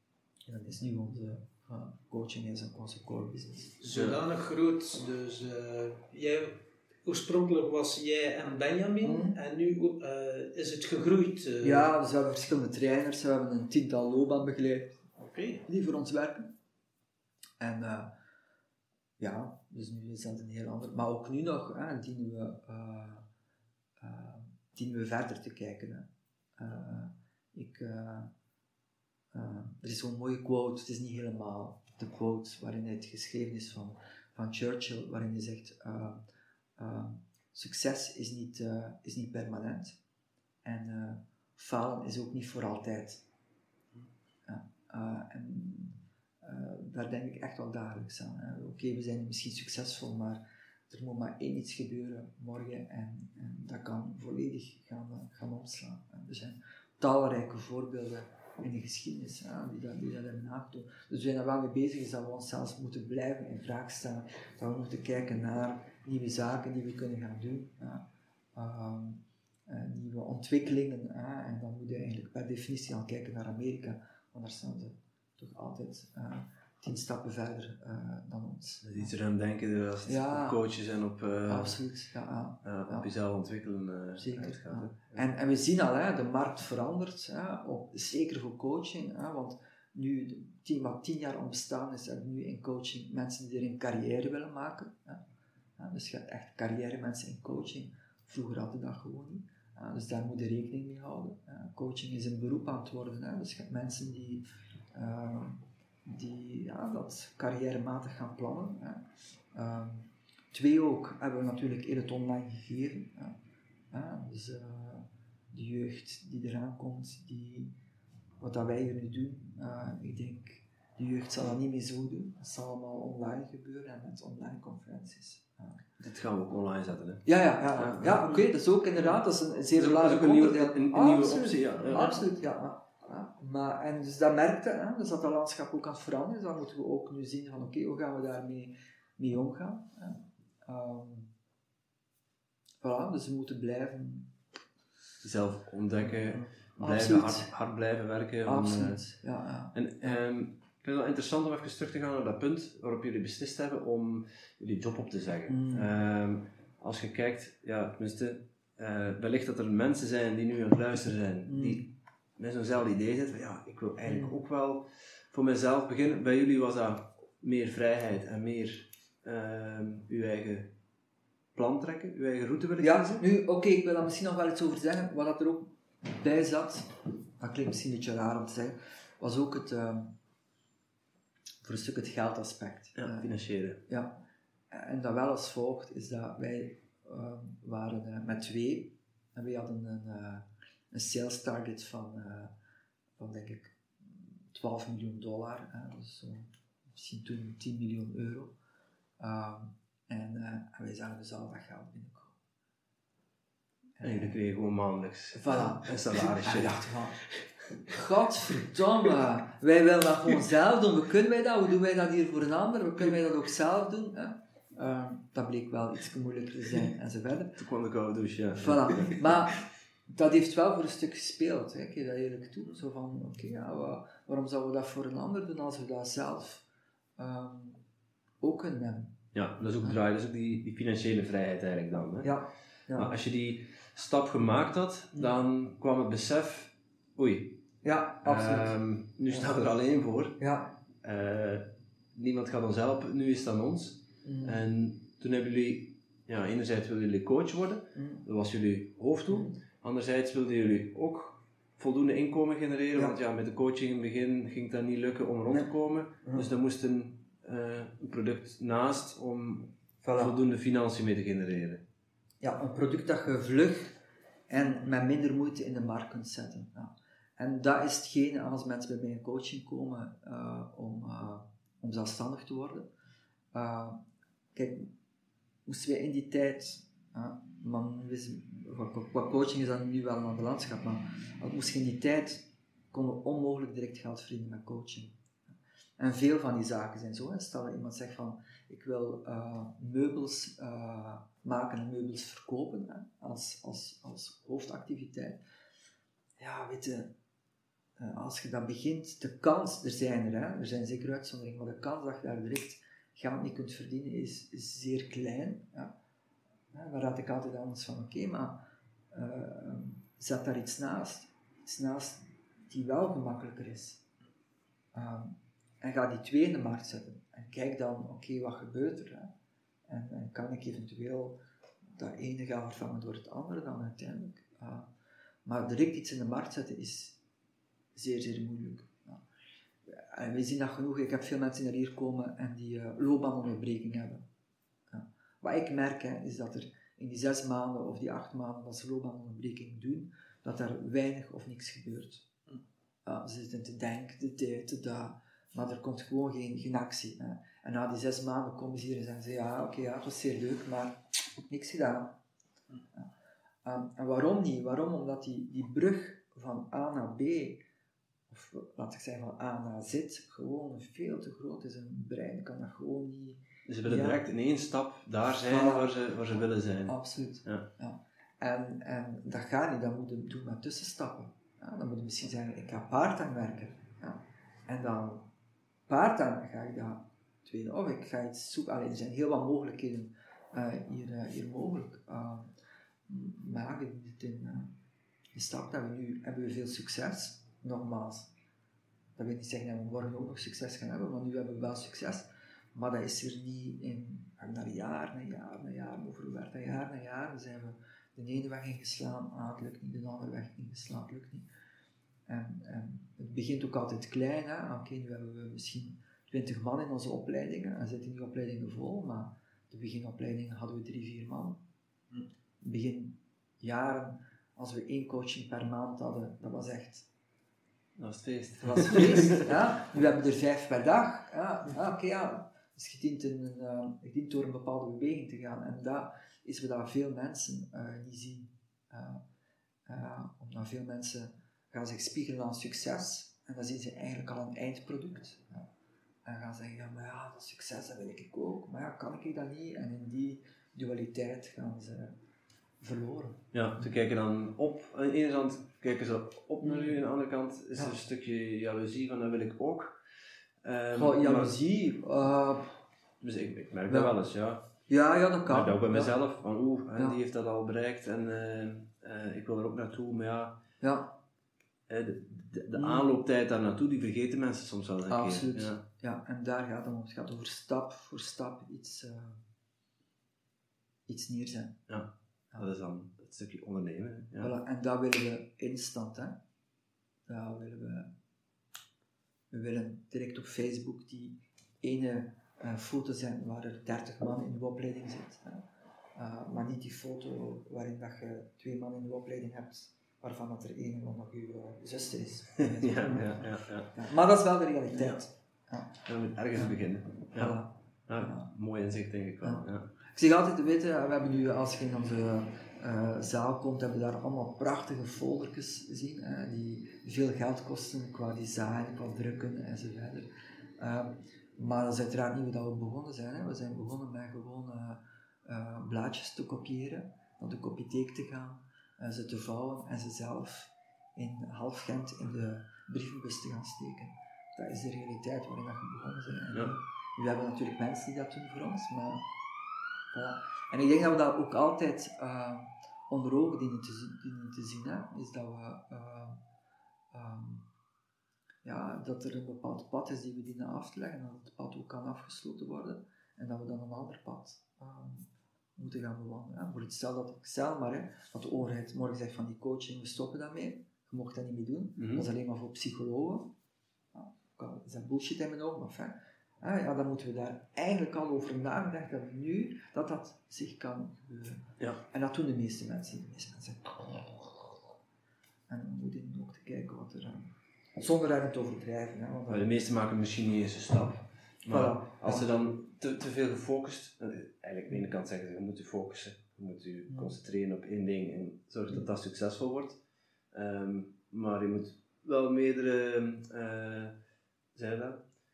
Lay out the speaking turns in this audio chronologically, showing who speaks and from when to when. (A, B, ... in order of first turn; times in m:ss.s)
0:00.4-0:03.8 A
0:03.8-0:11.9 B
0:03.9-0:04.2 C
0:09.0-0:09.4 A
0:11.6-0:15.0 A
0:15.2-0:15.6 B
0:15.7-0:16.5 A
0:17.6-0:18.1 A
0:19.2-0:23.2 A
0:24.0-0:28.3 A
0:29.3-0:36.2 A
0:36.8-0:40.0 A
0:40.6-0:43.2 A
0:44.4-1:19.1 A
1:18.8-1:21.8 C
1:20.0-1:20.6 A
1:21.4-1:23.1 A
1:22.6-1:25.2 C
1:24.2-1:35.2 A
1:35.8-1:53.4 A
1:53.9-1:57.7 A
1:58.4-2:05.8 A
2:06.0-2:08.4 C
2:07.2-2:21.3 A
2:09.7-2:12.2 C
2:22.8-2:24.3 A
2:25.2-2:29.0 C
2:26.0-2:27.5 A
2:28.4-2:30.2 A
2:29.7-2:50.7 C
2:35.5-2:35.9 A
2:41.5-2:41.8 A
2:44.1-2:44.3 A
2:51.5-2:53.2 C
2:52.8-3:00.1 A
3:01.6-3:03.3 A
3:03.0-3:03.8 C
3:03.8-3:04.2 A
3:04.7-3:12.5 A
3:13.2-3:18.5 A
3:19.2-3:22.4 A
3:24.0-3:24.4 A
3:24.0-3:26.8 C
3:25.3-3:27.2 A
3:27.9-3:37.6 A
3:37.6-3:39.6 C
3:38.5-3:46.6 A
3:47.2-3:47.8 A
3:48.4-3:49.2 A
3:49.3-3:52.3 C
3:52.2-3:53.2 A
3:52.9-3:57.6 C
3:57.8-3:58.8 A
3:58.2-4:00.4 C
3:59.3-3:59.6 A
4:00.4-4:00.7 A
4:01.0-4:21.8 C
4:04.2-4:04.6 A
4:07.9-4:08.2 A
4:09.3-4:09.6 A
4:16.2-4:16.5 A
4:20.0-4:20.4 A
4:22.4-4:32.9 A
4:33.5-4:34.0 A
4:34.5-4:34.9 A
4:35.6-4:45.1 A
4:46.0-4:55.4 A
4:56.4-4:57.1 A
4:58.0-5:05.9 A
5:06.7-5:14.0 A
5:14.9-5:19.3 A
5:19.9-5:21.4 A
5:21.9-5:24.9 A
5:25.4-5:27.2 A
5:27.9-5:29.2 A
5:29.9-5:34.2 A
5:34.9-5:42.3 A
5:43.0-5:52.2 A
5:53.6-5:57.6 A
5:58.3-6:04.2 A
6:03.7-6:07.6 C
6:05.4-6:05.9 A
6:06.8-6:15.3 A
6:15.9-6:22.5 A
6:23.1-6:24.7 A
6:25.3-6:28.3 A
6:29.2-6:41.5 A
6:42.3-6:51.6 A
6:52.6-6:57.1 A
6:58.0-6:59.5 C
6:58.6-7:09.2 A
7:09.8-7:15.7 A
7:16.2-7:22.1 A
7:22.8-7:23.5 A
7:23.5-7:29.9 C
7:26.6-7:27.0 A
7:30.6-7:31.6 C
7:30.9-7:32.7 A
7:33.2-7:34.6 C
7:33.9-7:34.1 A
7:34.9-7:36.2 A
7:35.5-7:40.6 C
7:40.8-7:41.2 A
7:41.9-7:45.8 C
7:42.7-7:43.1 A
7:45.1-7:49.4 A
7:51.1-7:51.9 A
7:51.9-7:54.5 C
7:54.4-7:56.4 A
7:57.3-7:58.1 A
7:59.5-8:16.0 A
8:12.6-8:13.9 C
8:15.0-8:15.2 C
8:16.0-8:19.9 C
8:16.5-8:18.5 A
8:19.4-8:49.3 A
8:50.1-8:56.4 A
8:57.1-8:57.7 A
8:58.6-9:13.5 A
9:12.0-9:12.3 C
9:14.1-9:24.6 A
9:25.7-9:29.7 A
9:29.5-9:40.0 C
9:31.7-9:32.7 A
9:37.1-9:37.3 A
9:40.5-9:44.2 C
9:44.7-9:45.2 C